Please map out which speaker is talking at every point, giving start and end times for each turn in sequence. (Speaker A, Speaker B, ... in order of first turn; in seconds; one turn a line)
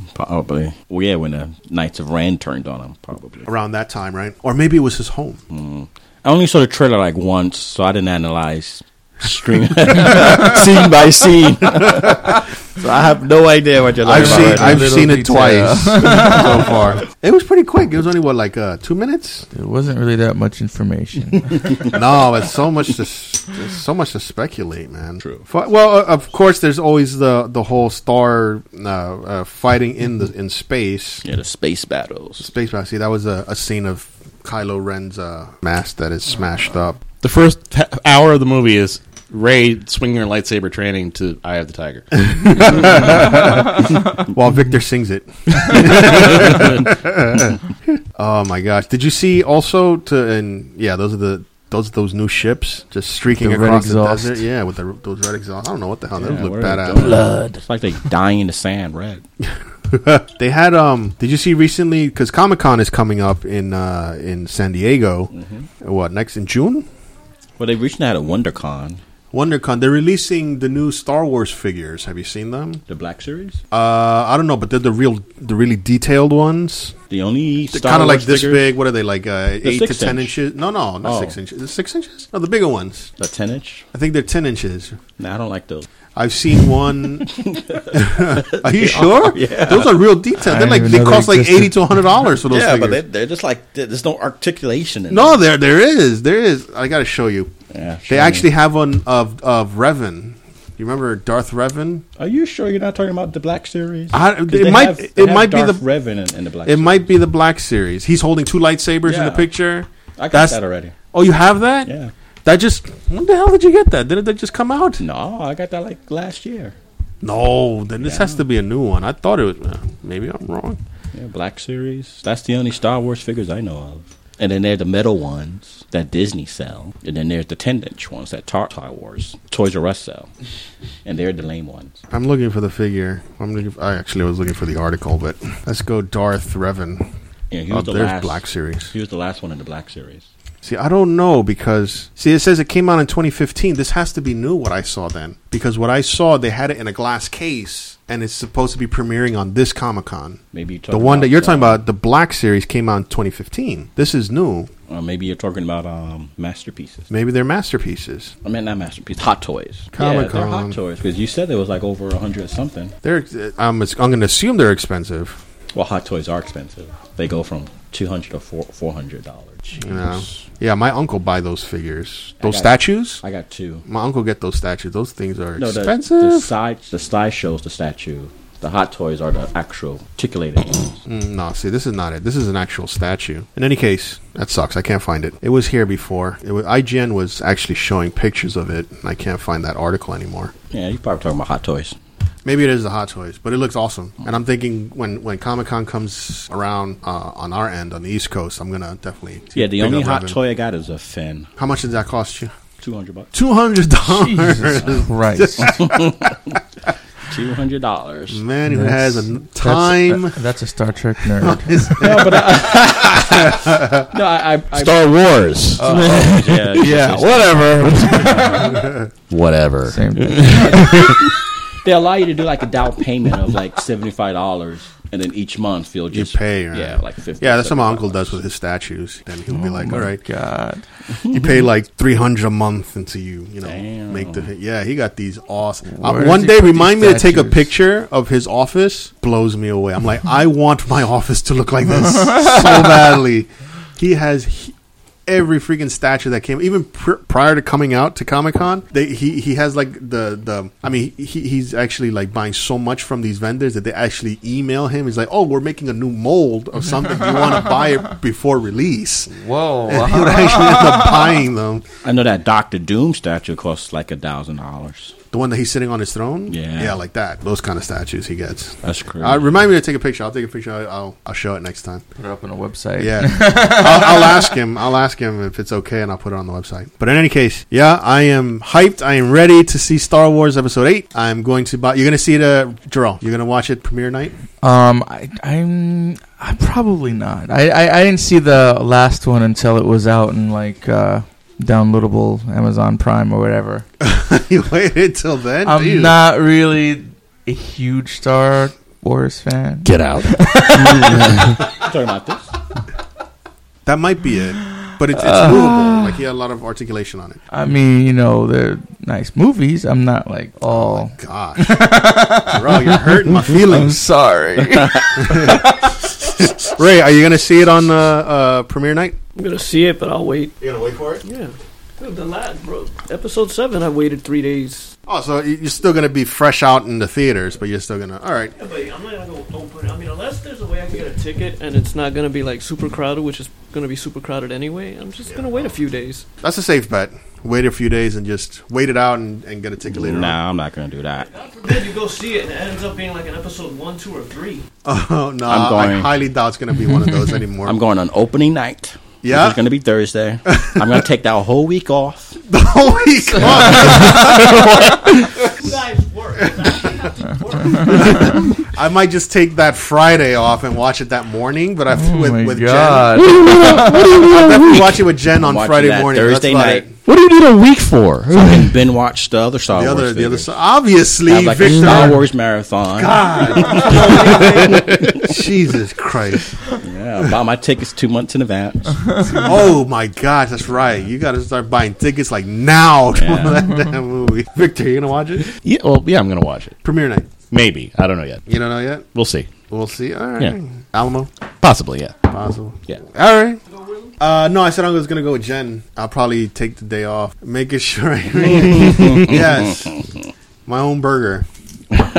Speaker A: 0.1-3.5
Speaker B: 3.5-5.4
Speaker A: 5.5-14.9
Speaker B: 14.0-19.4
Speaker C: 14.1-16.8
Speaker C: 19.5-21.9
Speaker B: 21.9-31.2
Speaker A: 25.2-25.5
Speaker A: 31.2-32.5
Speaker B: 32.4-37.0
Speaker D: 37.2-42.1
Speaker B: 42.3-57.1
Speaker C: 53.3-54.4
Speaker A: 56.2-59.2
Speaker C: 57.0-57.6
Speaker B: 59.9-66.9
Speaker A: 65.3-65.7
Speaker A: 67.6-69.0
Speaker B: 69.3-72.8
Speaker A: 72.9-73.6
Speaker B: 73.7-76.9
Speaker A: 77.1-78.8
Speaker B: 77.7-83.1
Speaker A: 79.6-80.4
Speaker A: 81.0-81.4
Speaker A: 83.2-83.9
Speaker B: 83.9-85.0
Speaker A: 85.2-85.9
Speaker B: 86.1-87.4
Speaker A: 87.2-90.1
Speaker B: 87.9-93.0
Speaker C: 90.4-91.9
Speaker A: 92.5-95.4
Speaker B: 95.1-97.5
Speaker A: 97.7-98.5
Speaker B: 98.1-102.0
Speaker A: 102.2-107.1
Speaker B: 104.1-105.8
Speaker B: 106.7-110.6
Speaker A: 109.0-109.5
Speaker A: 110.2-110.9
Speaker B: 111.1-111.9
Speaker A: 111.8-112.1
Speaker B: 112.4-115.0
Speaker A: 115.0-116.8
Speaker B: 117.2-120.8
Speaker A: 118.0-118.4
Speaker A: 121.1-130.3
Speaker A: 131.1-132.0
Speaker B: 132.1-137.1
Speaker A: 137.5-140.3
Speaker B: 137.7-138.9
Speaker B: 140.6-154.7
Speaker A: 150.5-151.8
Speaker A: 154.9-157.1
Speaker B: 157.1-158.3
Speaker A: 158.4-162.9
Speaker B: 159.9-160.8
Speaker B: 163.0-165.4
Speaker A: 165.7-170.4
Speaker B: 169.8-173.2
Speaker A: 172.4-173.8
Speaker B: 173.9-176.5
Speaker A: 175.6-180.9
Speaker B: 181.1-190.5
Speaker A: 190.7-192.0
Speaker B: 192.4-200.4
Speaker A: 199.6-201.5
Speaker B: 201.6-202.5
Speaker A: 202.8-203.3
Speaker B: 203.3-206.1
Speaker C: 204.1-206.0
Speaker A: 205.6-206.6
Speaker A: 207.3-208.4
Speaker B: 208.3-210.4
Speaker C: 208.7-211.9
Speaker B: 211.4-214.0
Speaker A: 212.0-215.0
Speaker D: 214.8-216.7
Speaker C: 215.8-218.9
Speaker A: 215.8-218.8
Speaker D: 217.8-218.3
Speaker B: 218.8-219.1
Speaker D: 219.3-221.2
Speaker C: 219.9-221.2
Speaker A: 220.4-221.3
Speaker A: 221.8-228.4
Speaker B: 226.1-230.2
Speaker C: 229.5-230.8
Speaker B: 231.3-244.7
Speaker A: 233.6-234.5
Speaker C: 235.9-237.7
Speaker C: 242.1-243.0
Speaker B: 245.3-259.3
Speaker C: 257.0-257.6
Speaker C: 259.3-261.4
Speaker B: 259.9-261.8
Speaker A: 262.0-265.1
Speaker B: 265.3-272.1
Speaker A: 266.5-267.0
Speaker A: 268.8-269.6
Speaker C: 272.2-274.6
Speaker B: 273.0-284.4
Speaker C: 284.6-293.9
Speaker B: 294.0-296.1
Speaker C: 295.6-301.6
Speaker D: 299.8-301.6
Speaker A: 301.7-302.5
Speaker B: 303.9-307.4
Speaker C: 304.7-306.2
Speaker C: 307.5-315.9
Speaker B: 310.7-311.8
Speaker B: 312.4-314.0
Speaker B: 315.2-315.6
Speaker B: 316.3-319.2
Speaker E: 319.4-320.6
Speaker B: 320.6-321.2
Speaker E: 321.2-324.9
Speaker B: 325.1-328.5
Speaker E: 328.6-336.2
Speaker B: 335.3-335.7
Speaker B: 336.4-340.4
Speaker A: 339.9-341.3
Speaker E: 341.2-344.6
Speaker B: 344.8-347.8
Speaker A: 345.4-346.1
Speaker C: 346.9-347.2
Speaker A: 347.6-352.4
Speaker B: 349.2-349.6
Speaker B: 350.5-350.8
Speaker B: 352.5-355.7
Speaker C: 353.3-354.7
Speaker D: 353.8-355.1
Speaker E: 355.4-358.4
Speaker C: 357.7-358.2
Speaker B: 357.8-366.9
Speaker C: 361.9-364.2
Speaker D: 363.1-365.0
Speaker A: 365.4-366.9
Speaker D: 367.1-368.7
Speaker A: 368.3-370.5
Speaker B: 369.7-372.3
Speaker A: 371.3-374.4
Speaker B: 372.9-376.5
Speaker E: 373.5-375.0
Speaker A: 376.8-379.4
Speaker C: 379.1-379.4
Speaker B: 379.3-385.6
Speaker A: 383.1-383.6
Speaker D: 385.6-386.8
Speaker B: 386.8-387.3
Speaker D: 387.5-388.4
Speaker B: 388.4-389.1
Speaker D: 389.1-389.5
Speaker B: 389.7-391.3
Speaker D: 391.6-392.2
Speaker B: 392.3-393.6
Speaker B: 394.2-400.1
Speaker D: 398.8-399.3
Speaker B: 400.6-401.5